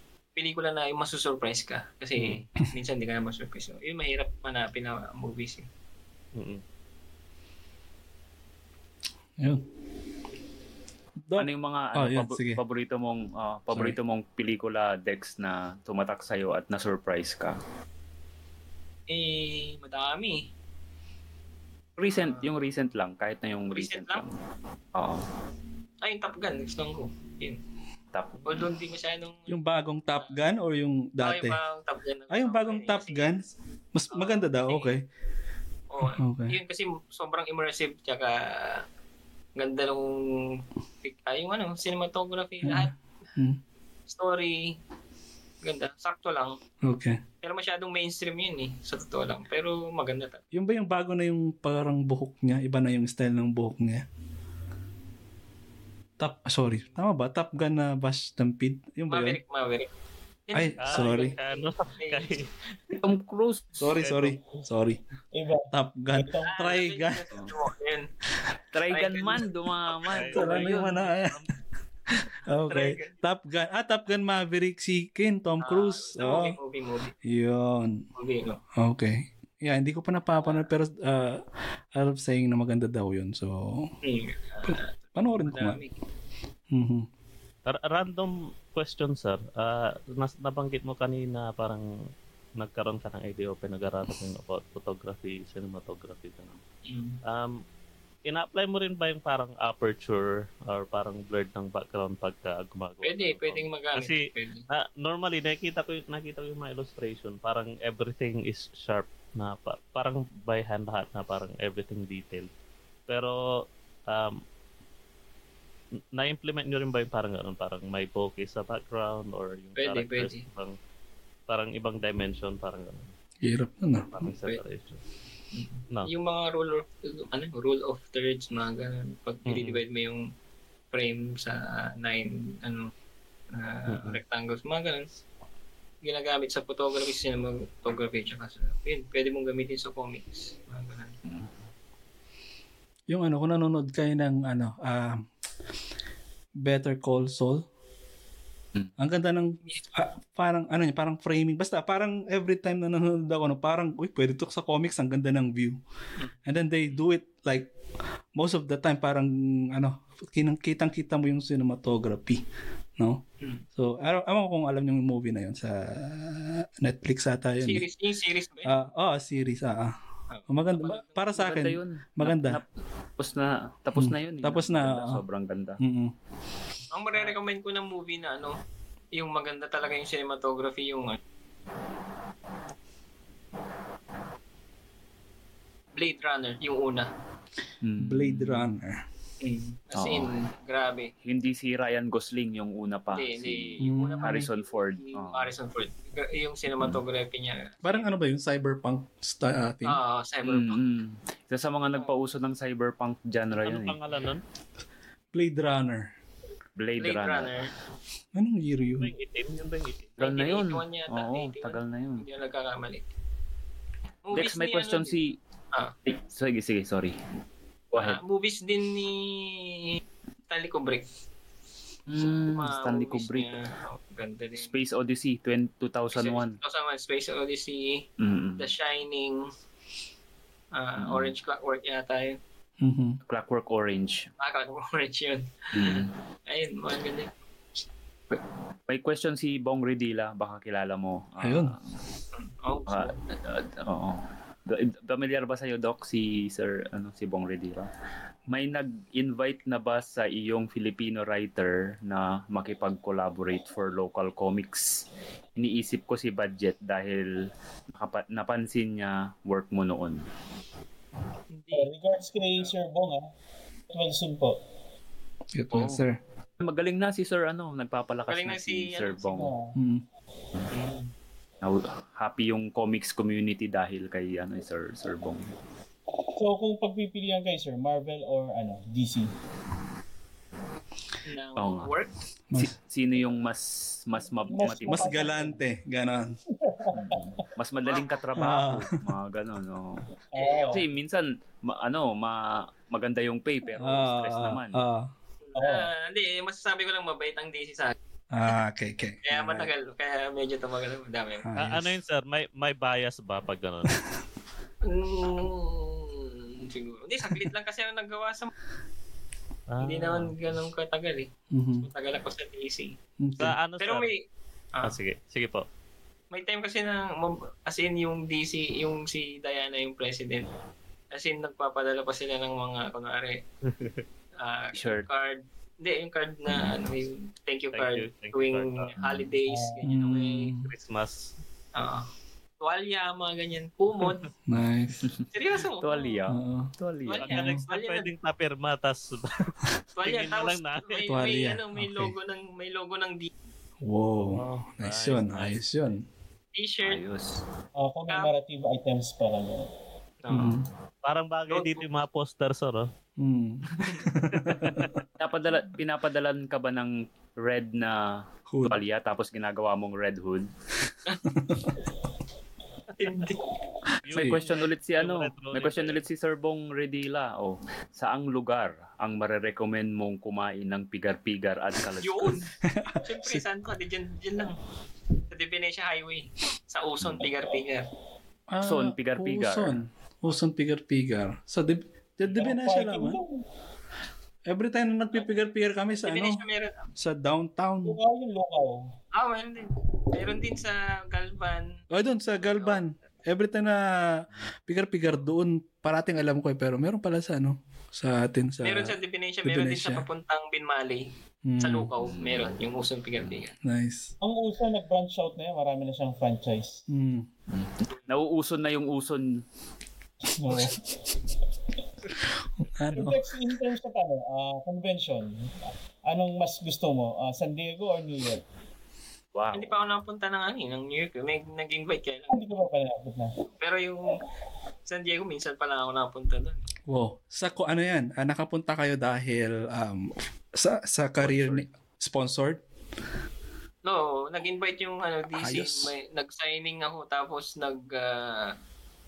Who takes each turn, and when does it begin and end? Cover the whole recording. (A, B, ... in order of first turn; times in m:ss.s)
0:00.4-0:05.7 A
0:02.2-0:02.4 B
0:06.4-0:06.6 B
0:11.3-0:12.6 C
0:11.4-0:17.6 D
0:13.7-0:14.0 C
0:19.1-0:20.4 A
0:22.0-0:24.3 D
0:22.2-0:22.5 A
0:23.7-0:24.2 A
0:25.0-0:25.3 D
0:26.0-0:27.6 A
0:28.1-0:28.6 D
0:28.4-0:29.6 A
0:29.5-0:31.6 C
0:31.2-0:33.3 A
0:32.3-0:35.0 C
0:34.1-0:34.9 A
0:35.9-0:38.8 A
0:36.0-0:36.6 C
0:39.6-0:42.9 A
0:42.6-0:43.6 C
0:44.1-0:44.8 A
0:45.6-0:46.6 A
0:46.8-0:47.2 C
0:47.4-0:50.4 A
0:50.5-0:54.0 C
0:56.2-0:59.4 C
0:59.1-0:59.9 A
1:00.5-1:02.4 A
1:00.5-1:01.4 C
1:00.8-1:02.5 B
1:02.9-1:03.8 D
1:03.8-1:05.0 C
1:04.0-1:04.5 B
1:05.3-1:06.6 E
1:05.7-1:07.2 C
1:06.5-1:08.1 A
1:08.7-1:11.0 D
1:08.9-1:09.4 A
1:10.0-1:10.4 A
1:10.1-1:11.5 B
1:10.3-1:11.5 C
1:12.1-1:16.6 C
1:12.6-1:13.2 A
1:15.6-1:17.2 A
1:17.2-1:18.1 C
1:18.2-1:18.6 A
1:18.8-1:23.9 C
1:20.4-1:20.7 A
1:24.0-1:26.0 A
1:24.7-1:25.8 C
1:26.7-1:27.1 C
1:27.7-1:31.9 B
1:32.6-1:36.6 B
1:36.9-1:37.2 A
1:37.2-1:37.6 B
1:38.3-1:44.2 B
1:43.0-1:44.7 A
1:44.7-1:52.5 B
1:53.1-1:54.4 B
1:56.1-2:00.8 B
1:59.8-2:00.4 A
2:01.5-2:03.1 B
2:03.4-2:04.3 C
2:04.1-2:05.0 B
2:05.5-2:10.2 A
2:09.5-2:09.8 B
2:10.9-2:12.9 A
2:13.5-2:15.1 A
2:13.9-2:14.2 B
2:16.0-2:21.2 A
2:23.1-2:25.3 C
2:26.6-2:27.7 C
2:29.0-2:35.8 C
2:36.4-2:37.7 C
2:38.4-2:42.4 C
2:43.8-2:47.9 C
2:47.6-2:48.7 A
2:48.6-2:50.0 C
2:50.3-2:51.4 A
2:50.5-2:52.6 C
2:51.3-2:55.8 D
2:54.0-2:55.2 C
2:55.8-2:56.1 C
2:56.9-2:58.6 A
2:59.2-3:01.2 A
3:06.0-3:07.1 A
3:07.8-3:08.7 D
3:08.0-3:09.0 C
3:09.4-3:11.1 A
3:10.0-3:10.3 D
3:11.2-3:15.5 D
3:13.1-3:18.1 A
3:13.8-3:14.5 C
3:17.8-3:20.0 C
3:19.8-3:20.8 A
3:20.4-3:24.0 D
3:23.6-3:24.4 B
3:25.3-3:26.1 C
3:26.8-3:27.6 D
3:27.0-3:27.7 A
3:28.3-3:29.1 C
3:29.0-3:30.1 B
3:30.2-3:33.0 A
3:30.2-3:32.2 D
3:34.3-3:35.2 A
3:34.3-3:35.4 D
3:36.1-3:37.2 D
3:37.9-3:38.2 D
3:38.0-3:41.1 A
3:42.1-3:43.5 D
3:42.2-3:44.8 A
3:44.6-3:46.6 D
3:46.1-3:49.4 A
3:48.2-3:48.6 D
3:50.8-3:52.4 A
3:51.0-3:51.3 D
3:52.8-3:53.2 C
3:53.3-3:54.3 D
3:54.4-3:57.3 A
3:55.7-3:56.1 D
3:58.3-4:01.9 D
4:01.4-4:01.8 C
4:02.4-4:03.2 A
4:02.9-4:07.9 D
4:08.5-4:15.0 D
4:15.6-4:17.3 D
4:17.9-4:20.2 D
4:21.5-4:21.9 A
4:21.7-4:23.2 E
4:23.9-4:24.5 E
4:25.6-4:26.2 C
4:25.7-4:26.0 D
4:26.6-4:29.5 D
4:28.3-4:29.3 A
4:29.3-4:29.8 E
4:29.8-4:30.0 C
4:30.7-4:31.1 A
4:31.6-4:35.5 D
4:36.3-4:39.3 E
4:41.2-4:42.1 A
4:41.6-4:41.9 D
4:42.6-4:45.3 D
4:44.5-4:45.6 E
4:44.9-4:46.4 C
4:46.6-4:47.5 E
4:47.0-4:50.1 D
4:47.9-4:48.2 A
4:48.4-4:49.1 C
4:50.3-4:50.8 E
4:50.4-4:50.8 A
4:50.7-4:54.8 D
4:53.7-4:55.1 C
4:55.5-4:58.0 A
4:55.6-4:55.9 E
4:58.3-4:59.7 C
4:59.2-5:01.5 A
5:01.4-5:02.0 C
5:01.6-5:04.0 B
5:04.8-5:08.5 A
5:09.7-5:10.3 B
5:09.8-5:13.0 A
5:11.5-5:11.9 C
5:13.2-5:13.6 C
5:13.4-5:14.1 B
5:13.8-5:14.2 A
5:14.8-5:15.7 B
5:16.3-5:20.5 A
5:21.1-5:23.4 A
5:23.7-5:24.0 B
5:24.4-5:30.5 A
5:24.7-5:25.1 D
5:27.7-5:28.9 B
5:29.5-5:29.9 E
5:29.8-5:30.7 C
5:30.6-5:31.3 B
5:31.8-5:32.0 A
5:32.6-5:34.3 A
5:34.5-5:35.1 C
5:35.3-5:36.2 A
5:35.8-5:37.3 D
5:36.3-5:36.7 C
5:37.1-5:38.1 A
5:37.2-5:41.1 B
5:37.3-5:37.6 C
5:40.0-5:43.3 A
5:41.1-5:42.1 C
5:43.8-5:46.0 C
5:44.2-5:45.6 B
5:46.6-5:47.0 A
5:46.8-5:47.4 D
5:47.8-5:49.7 E
5:50.2-5:50.6 A
5:50.3-5:50.7 C
5:51.0-5:52.9 B
5:51.5-5:51.8 A
5:53.2-5:54.9 C
5:54.5-5:54.9 B
5:55.2-6:00.5 D
5:58.5-5:58.8 C
6:01.3-6:01.7 C
6:03.0-6:03.5 A
6:04.0-6:06.0 B
6:04.1-6:04.4 C
6:04.1-6:12.4 D
6:12.0-6:14.6 A
6:12.7-6:13.4 C
6:15.3-6:17.9 A
6:18.5-6:23.2 C
6:18.6-6:19.8 D
6:22.4-6:23.4 E
6:24.5-6:26.4 C
6:25.1-6:25.4 A
6:26.0-6:26.8 A
6:27.0-6:28.0 C
6:27.8-6:29.0 E
6:29.1-6:31.8 A
6:31.9-6:40.1 C
6:32.4-6:32.8 A
6:38.6-6:41.0 A
6:41.5-6:41.9 C
6:41.6-6:43.5 A
6:42.0-6:42.6 D
6:43.6-6:44.1 C
6:44.2-6:46.8 E
6:46.9-6:47.3 C
6:47.5-6:49.4 D
6:50.3-6:50.8 E
6:52.6-6:53.2 C
6:52.9-6:55.3 E
6:56.1-6:58.4 E
6:59.3-6:59.8 D
6:59.5-7:02.5 A
7:02.3-7:03.3 E
7:03.6-7:04.1 A
7:04.9-7:06.6 A
7:06.9-7:12.6 C
7:11.2-7:11.7 D
7:13.8-7:18.6 A
7:15.3-7:15.9 C